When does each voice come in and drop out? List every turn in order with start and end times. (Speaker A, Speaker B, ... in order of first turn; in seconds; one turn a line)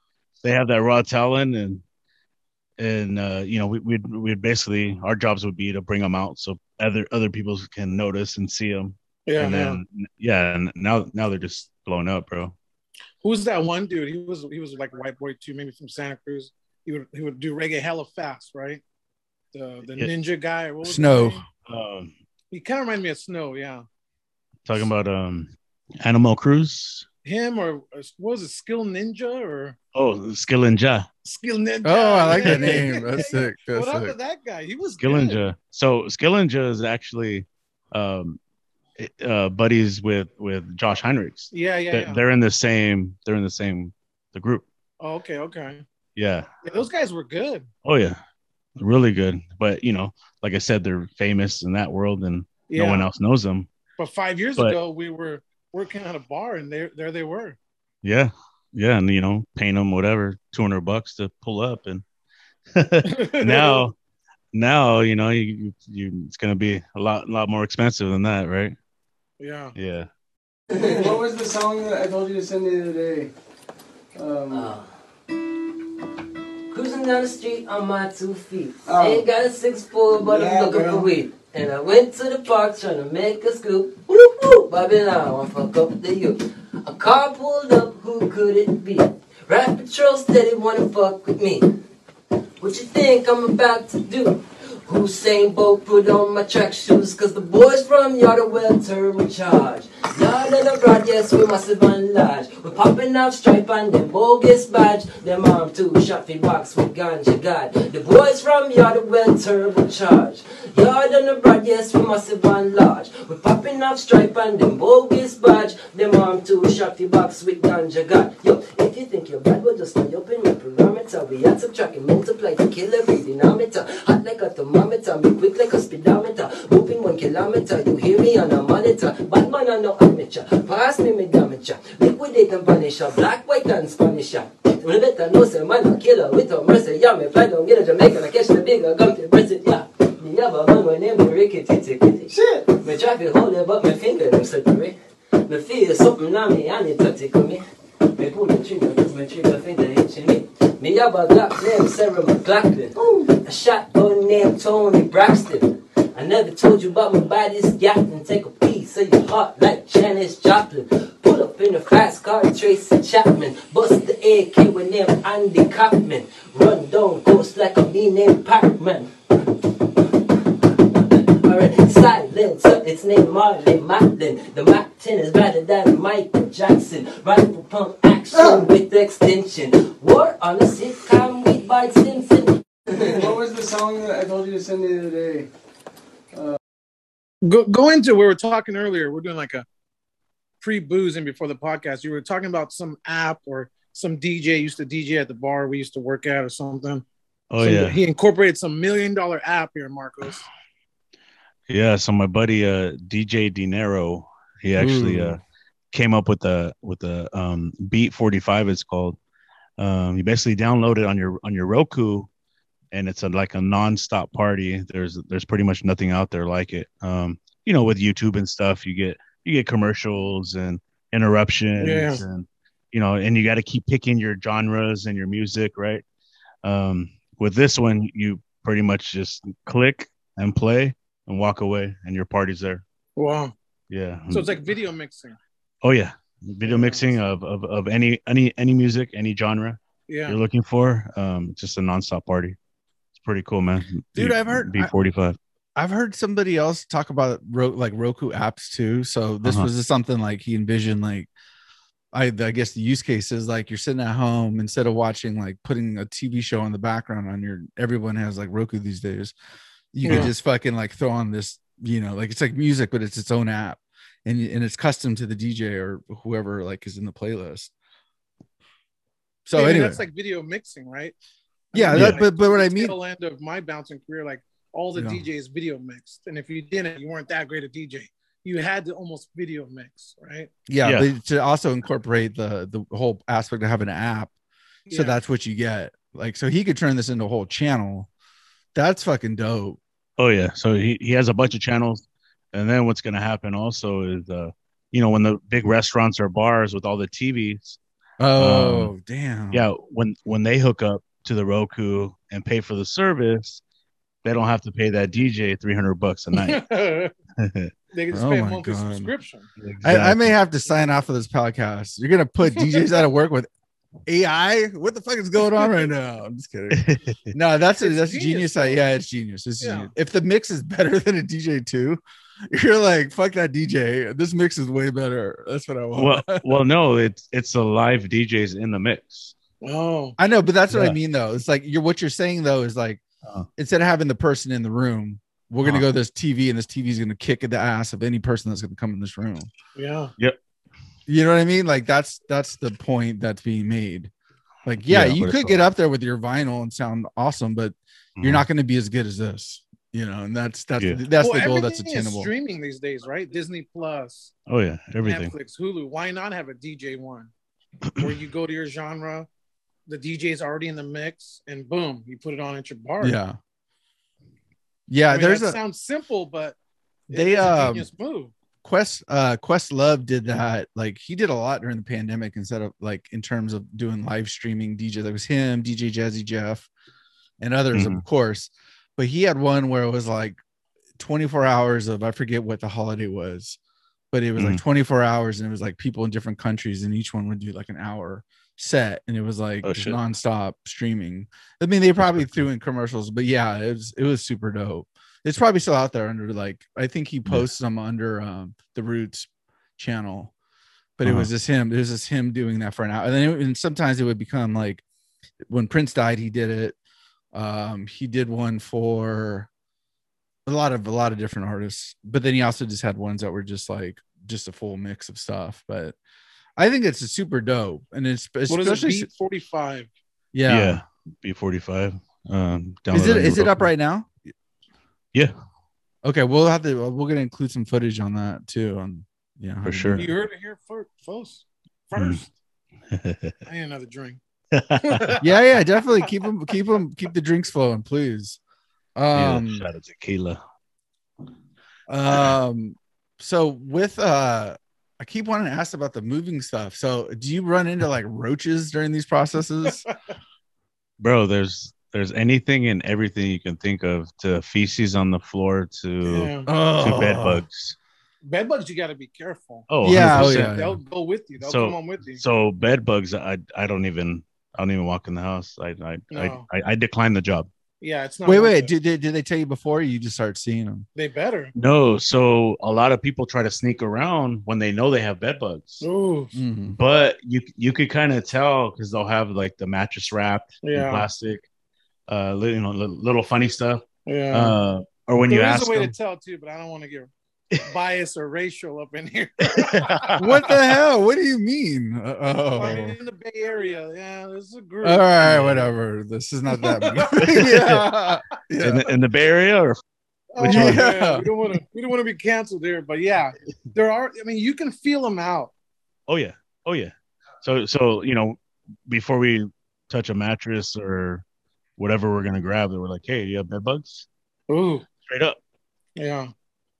Speaker A: 0.4-1.8
Speaker A: 2.8-12.5
Speaker B: 9.3-9.8
Speaker B: 13.2-18.8
Speaker B: 19.5-21.4
Speaker C: 20.8-21.4
Speaker A: 21.6-22.1
Speaker B: 22.5-23.8
Speaker A: 24.6-27.1
Speaker B: 27.2-29.8
Speaker A: 29.9-31.1
Speaker B: 31.2-35.4
Speaker C: 31.8-34.1
Speaker A: 32.4-32.8
Speaker A: 35.0-38.4
Speaker A: 39.0-44.6
Speaker B: 41.5-42.2
Speaker B: 45.0-45.8
Speaker A: 46.1-46.5
Speaker B: 46.6-47.7
Speaker A: 47.8-48.2
Speaker A: 48.8-53.7
Speaker B: 52.7-53.1
Speaker B: 54.0-57.6
Speaker A: 58.0-62.0
Speaker A: 62.7-63.9
Speaker B: 63.0-63.8
Speaker A: 64.5-68.8
Speaker B: 69.4-69.7
Speaker A: 69.7-70.1
Speaker D: 70.7-73.3
Speaker E: 70.8-71.1
Speaker D: 74.1-74.8
Speaker E: 74.5-74.8
Speaker E: 76.7-91.6
Speaker D: 78.8-79.3
Speaker D: 80.1-81.1
Speaker E: 92.6-144.9
Speaker E: 145.4-147.6
Speaker E: 148.2-169.1
Speaker E: 170.9-183.2
Speaker D: 183.1-185.5
Speaker D: 186.3-186.6
Speaker B: 187.4-189.6
Speaker B: 190.6-197.0
Speaker A: 197.5-198.0
Speaker B: 197.6-200.4
Speaker A: 201.7-205.4
Speaker C: 204.8-205.4
Speaker A: 205.9-209.2
Speaker A: 209.8-212.3
Speaker A: 212.9-226.0
Speaker B: 221.8-222.2
Speaker A: 226.6-232.8
Speaker B: 233.2-233.5
Speaker A: 233.9-234.6
Speaker B: 234.3-235.4
Speaker A: 235.8-242.6
Speaker B: 236.6-237.2
Speaker B: 240.1-240.4
Speaker A: 243.2-245.4
Speaker C: 244.1-244.9
Speaker C: 245.8-251.3
Speaker A: 249.4-249.7
Speaker C: 252.1-259.3
Speaker C: 259.9-267.7
Speaker B: 260.0-260.3
Speaker C: 269.4-270.0
Speaker B: 269.5-271.1
Speaker B: 271.7-280.5
Speaker C: 271.7-272.9
Speaker A: 271.9-272.2
Speaker C: 274.9-275.2
Speaker C: 280.7-284.3
Speaker A: 280.8-281.1
Speaker B: 284.9-285.2
Speaker C: 284.9-288.1
Speaker C: 288.7-289.8
Speaker A: 290.2-297.8
Speaker C: 298.2-299.6
Speaker A: 298.4-298.9
Speaker A: 299.5-303.6
Speaker A: 304.2-306.6
Speaker B: 306.4-307.1
Speaker A: 307.4-307.7
Speaker B: 307.9-309.5
Speaker C: 308.1-309.1
Speaker A: 309.6-310.4
Speaker C: 309.8-313.5
Speaker B: 312.5-312.8
Speaker C: 314.1-326.5
Speaker A: 316.7-317.3
Speaker B: 317.8-318.8
Speaker B: 319.6-319.9
Speaker A: 325.9-329.3
Speaker B: 329.6-330.2
Speaker C: 330.2-333.0
Speaker A: 330.7-331.0
Speaker C: 333.6-339.5
Speaker B: 339.8-340.1
Speaker C: 341.1-344.1
Speaker C: 344.6-352.3
Speaker A: 344.8-345.6
Speaker A: 348.2-348.4
Speaker B: 351.2-354.3
Speaker A: 354.5-355.3
Speaker B: 355.0-357.3
Speaker B: 358.0-359.3
Speaker B: 359.9-363.2
Speaker C: 363.0-363.4
Speaker C: 364.9-365.6
Speaker B: 365.1-366.6
Speaker B: 367.1-368.3
Speaker C: 367.1-367.9
Speaker C: 368.6-376.7
Speaker C: 377.4-380.4
Speaker A: 377.7-378.0
Speaker C: 381.0-383.6
Speaker C: 384.1-400.3
Speaker A: 384.4-384.6
Speaker A: 389.6-390.0
Speaker A: 392.0-392.4
Speaker C: 401.0-404.8
Speaker A: 401.0-401.3
Speaker C: 405.5-406.8
Speaker C: 407.3-409.5
Speaker C: 410.4-415.9
Speaker C: 416.6-419.1
Speaker B: 418.5-419.9
Speaker C: 420.3-420.8
Speaker A: 420.5-423.7
Speaker C: 422.9-424.1
Speaker C: 426.0-430.1
Speaker A: 429.6-430.1
Speaker B: 430.0-432.3
Speaker A: 431.9-432.2
Speaker A: 432.9-433.3
Speaker B: 433.4-434.2
Speaker A: 434.5-435.2
Speaker B: 434.8-435.2
Speaker C: 435.2-438.4
Speaker C: 438.9-439.6
Speaker A: 439.1-440.4
Speaker C: 441.9-449.9
Speaker A: 451.0-457.8
Speaker B: 456.0-456.5
Speaker C: 456.5-457.4
Speaker B: 458.2-462.2
Speaker A: 459.7-460.6
Speaker C: 459.8-460.8
Speaker A: 461.4-467.5
Speaker B: 466.1-466.4
Speaker B: 467.8-468.7
Speaker C: 468.2-470.9
Speaker B: 470.9-471.5
Speaker A: 471.5-475.9
Speaker B: 475.8-476.3
Speaker C: 476.3-476.8
Speaker A: 476.7-481.4
Speaker B: 480.6-481.1
Speaker A: 482.1-485.9
Speaker B: 484.1-484.6
Speaker B: 485.3-490.2
Speaker A: 489.4-490.2
Speaker C: 490.2-492.9
Speaker B: 492.5-495.1
Speaker C: 494.8-498.9
Speaker A: 495.3-495.6
Speaker B: 496.6-497.4
Speaker A: 497.2-497.5
Speaker A: 498.6-499.8
Speaker B: 500.3-505.5
Speaker A: 500.4-500.8
Speaker C: 500.4-501.3
Speaker A: 506.1-511.2
Speaker A: 511.8-514.0
Speaker B: 514.5-514.8
Speaker A: 515.1-515.4
Speaker B: 516.0-516.3